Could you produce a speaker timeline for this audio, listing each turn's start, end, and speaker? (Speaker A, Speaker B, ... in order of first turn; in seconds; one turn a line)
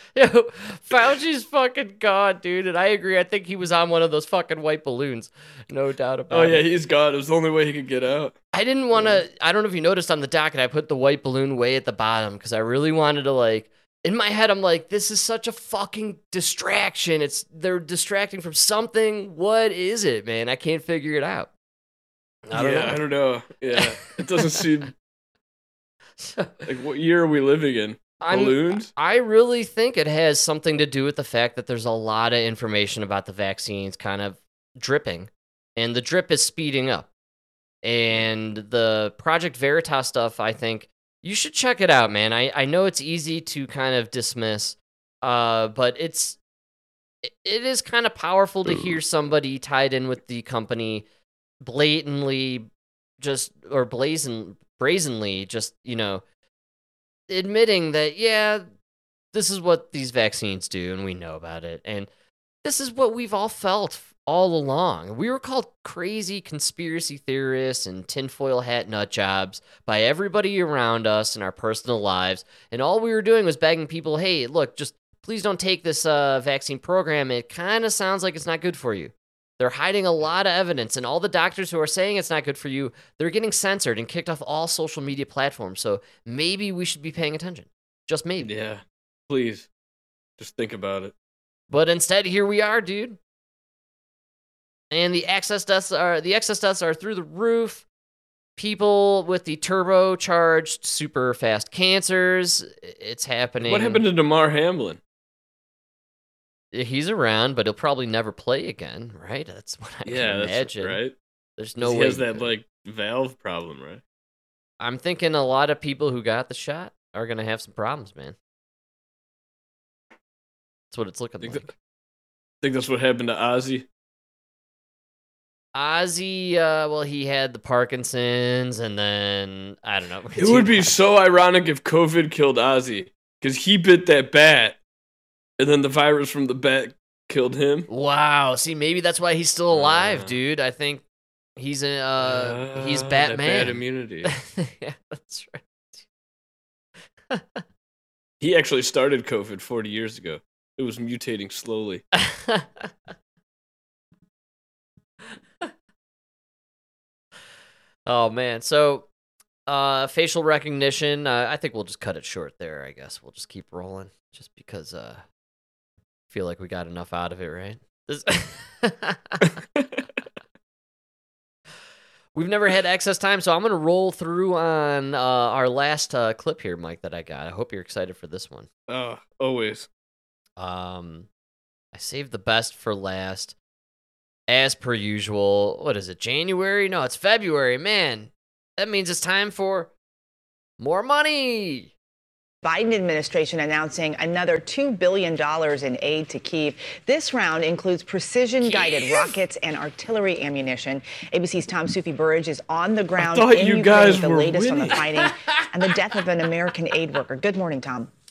Speaker A: 0.1-6.6
Speaker B: 6.3-8.3
Speaker A: 8.5-21.5
Speaker B: 8.9-9.2
Speaker A: 22.5-23.0
Speaker B: 22.5-24.9
Speaker A: 26.2-26.6
Speaker B: 26.6-28.9
Speaker A: 28.2-37.1
Speaker A: 37.8-46.4
Speaker A: 47.2-51.0
Speaker A: 51.6-52.7
Speaker A: 53.2-56.2
Speaker A: 57.3-58.6
Speaker A: 59.3-62.1
Speaker A: 62.6-88.5
Speaker B: 88.4-89.7
Speaker B: 90.4-91.1
Speaker A: 91.7-93.2
Speaker A: 94.9-97.8
Speaker A: 98.6-104.0
Speaker B: 103.6-105.0
Speaker A: 106.7-111.0
Speaker B: 110.0-111.1
Speaker A: 111.6-112.5
Speaker B: 111.8-114.0
Speaker A: 114.8-118.3
Speaker A: 120.9-121.7
Speaker B: 121.4-121.7
Speaker B: 122.6-123.8
Speaker A: 125.7-130.9
Speaker B: 130.4-134.8
Speaker B: 135.6-137.9
Speaker A: 137.9-141.0
Speaker B: 139.7-140.4
Speaker A: 141.6-145.6
Speaker B: 142.2-144.3
Speaker A: 147.3-147.6
Speaker B: 148.4-152.0
Speaker A: 152.2-152.9
Speaker A: 158.1-159.1
Speaker A: 159.7-165.2
Speaker A: 166.3-169.4
Speaker A: 172.3-178.7
Speaker B: 178.9-179.9
Speaker A: 180.6-181.3
Speaker A: 181.9-183.5
Speaker A: 184.5-189.9
Speaker A: 190.8-191.9
Speaker C: 192.6-208.1
Speaker A: 198.6-199.3
Speaker B: 203.2-205.0